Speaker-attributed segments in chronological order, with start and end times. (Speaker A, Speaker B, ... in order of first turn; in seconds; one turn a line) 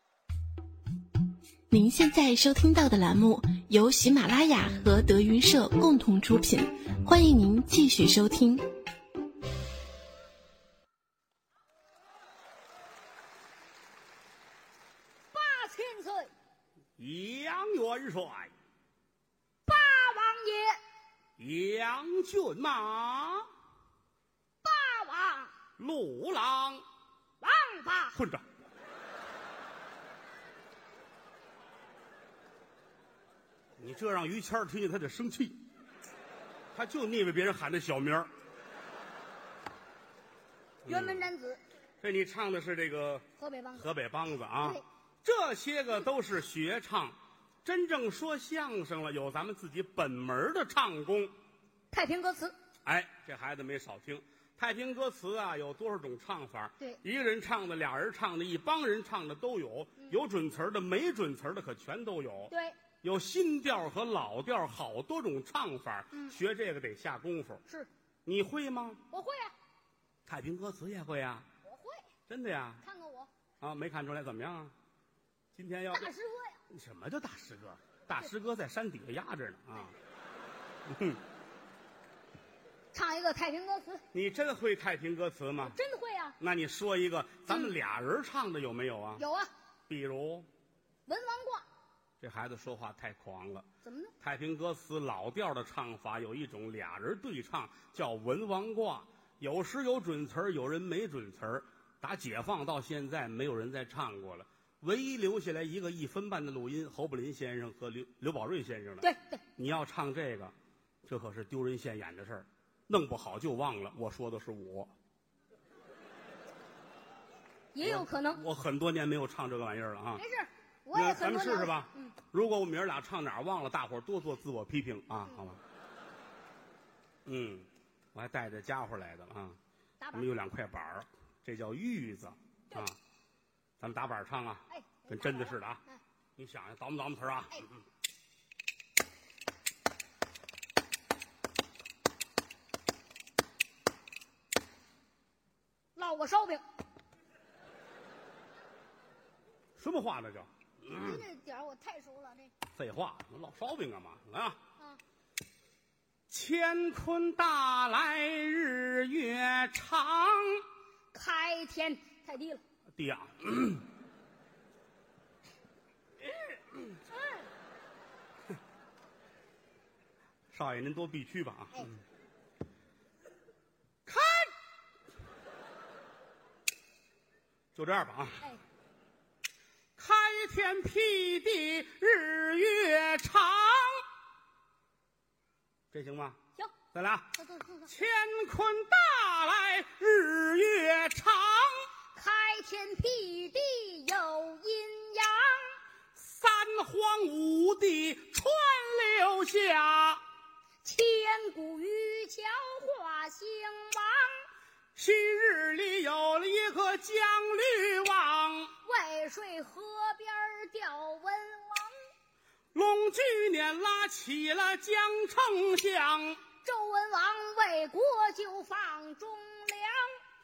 Speaker A: 1.7-8.6
Speaker B: 15.3-16.3
Speaker C: 17.0-18.5
Speaker B: 19.6-20.8
Speaker C: 21.4-23.5
Speaker B: 24.6-25.5
Speaker C: 25.8-26.8
Speaker B: 27.4-28.2
Speaker C: 28.1-28.4
Speaker C: 33.8-35.6
Speaker C: 36.7-38.3
Speaker C: 40.8-41.3
Speaker B: 40.9-41.6
Speaker C: 42.0-43.2
Speaker B: 43.4-43.9
Speaker C: 43.8-51.3
Speaker B: 51.9-52.5
Speaker C: 52.8-67.6
Speaker B: 62.5-62.8
Speaker C: 68.2-69.0
Speaker B: 69.1-69.5
Speaker C: 70.2-71.5
Speaker B: 71.6-72.1
Speaker C: 72.3-72.8
Speaker B: 72.8-73.3
Speaker C: 73.6-74.7
Speaker C: 75.5-76.1
Speaker B: 75.9-76.6
Speaker C: 76.7-80.0
Speaker C: 80.9-81.2
Speaker B: 82.9-84.0
Speaker C: 84.1-85.8
Speaker B: 85.6-86.4
Speaker C: 86.4-89.2
Speaker B: 89.2-89.5
Speaker C: 89.9-90.5
Speaker B: 91.0-91.6
Speaker C: 92.2-93.7
Speaker B: 93.8-94.1
Speaker C: 94.2-110.5
Speaker B: 109.0-109.4
Speaker C: 111.0-114.9
Speaker B: 117.7-118.4
Speaker C: 117.8-120.2
Speaker B: 120.2-122.1
Speaker C: 120.9-125.6
Speaker C: 127.2-129.6
Speaker B: 130.0-130.3
Speaker C: 130.1-133.0
Speaker C: 133.8-135.8
Speaker B: 134.7-136.0
Speaker C: 136.4-137.8
Speaker B: 145.9-146.6
Speaker C: 149.8-151.2
Speaker B: 150.9-152.5
Speaker C: 152.8-154.6
Speaker C: 156.3-160.6
Speaker B: 161.1-162.6
Speaker C: 162.9-163.8
Speaker C: 170.5-172.0
Speaker C: 174.1-174.5
Speaker C: 177.8-178.4
Speaker C: 180.0-184.0
Speaker C: 185.9-186.4
Speaker C: 186.9-187.3
Speaker B: 187.3-187.9
Speaker C: 187.9-191.9
Speaker B: 192.1-195.7
Speaker C: 196.1-200.2
Speaker B: 200.8-204.4
Speaker C: 204.9-208.7
Speaker B: 208.8-211.9
Speaker C: 212.7-216.4
Speaker B: 216.6-220.1